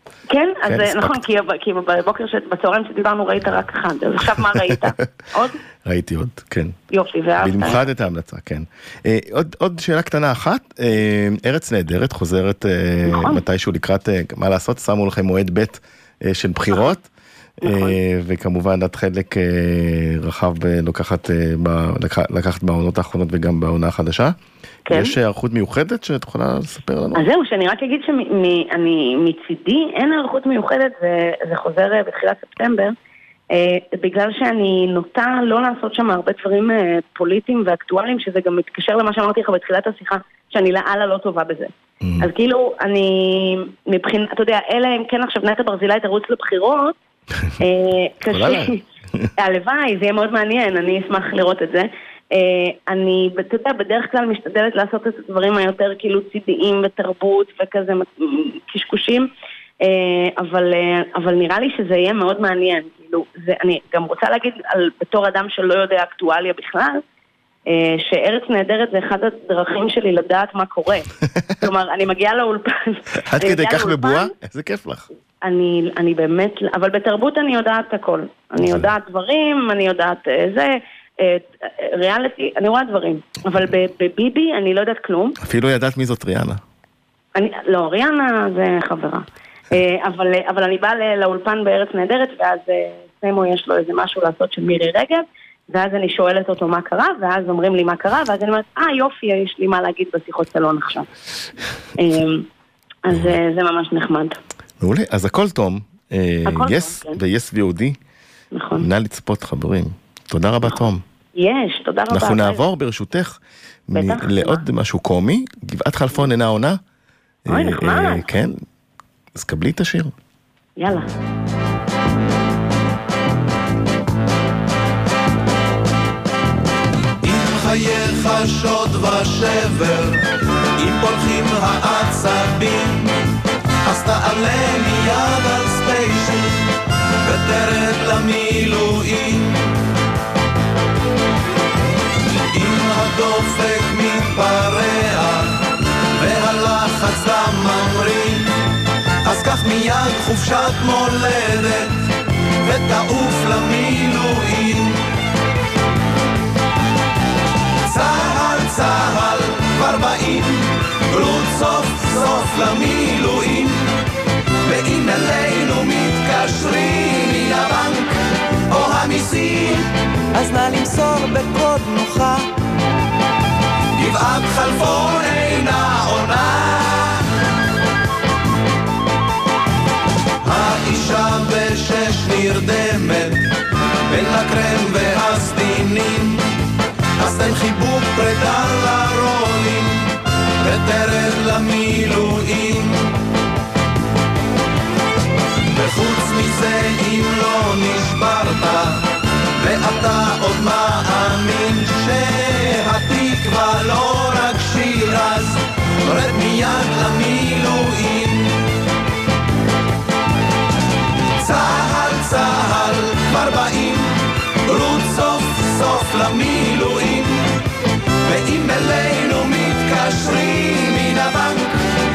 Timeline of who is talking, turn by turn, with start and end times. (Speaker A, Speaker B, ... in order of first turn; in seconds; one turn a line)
Speaker A: 0.3-5.6
Speaker B: 0.7-1.2
Speaker B: 5.8-6.8
Speaker A: 6.9-7.8
Speaker B: 7.4-17.1
Speaker A: 13.1-13.4
Speaker B: 17.6-24.4
Speaker A: 17.6-17.9
Speaker A: 24.9-25.1
Speaker B: 24.9-27.2
Speaker A: 27.1-32.9
Speaker A: 33.5-47.0
Speaker B: 42.0-42.3
Speaker A: 47.6-48.8
Speaker B: 48.3-49.3
Speaker A: 49.4-59.3
Speaker A: 59.8-67.0
Speaker A: 67.7-71.1
Speaker A: 71.6-74.3
Speaker B: 73.2-75.1
Speaker A: 75.4-85.4
Speaker B: 78.6-78.9
Speaker B: 85.4-86.6
Speaker A: 87.3-101.1
Speaker A: 102.0-102.5
Speaker A: 103.1-104.4
Speaker B: 103.1-103.4
Speaker B: 104.8-108.0
Speaker A: 106.5-107.2
Speaker A: 108.5-108.8
Speaker B: 108.8-111.0
Speaker A: 111.4-112.7
Speaker B: 112.1-116.8
Speaker A: 113.9-114.6
Speaker B: 117.5-118.6
Speaker A: 117.5-118.3
Speaker B: 119.3-120.1
Speaker A: 120.8-121.1
Speaker C: 127.2-130.3
Speaker C: 130.8-133.1
Speaker C: 133.8-136.7
Speaker C: 137.2-139.6
Speaker C: 142.5-145.6
Speaker C: 146.2-148.6
Speaker C: 149.2-152.0
Speaker C: 152.6-155.0
Speaker C: 157.9-163.9
Speaker C: 164.6-169.9
Speaker D: 170.3-172.4
Speaker C: 174.0-177.2
Speaker C: 180.4-183.5
Speaker C: 184.1-186.4
Speaker C: 187.2-190.1
Speaker C: 190.6-193.1
Speaker C: 195.7-199.1
Speaker C: 199.6-208.6
Speaker C: 211.4-217.5
Speaker C: 218.2-221.8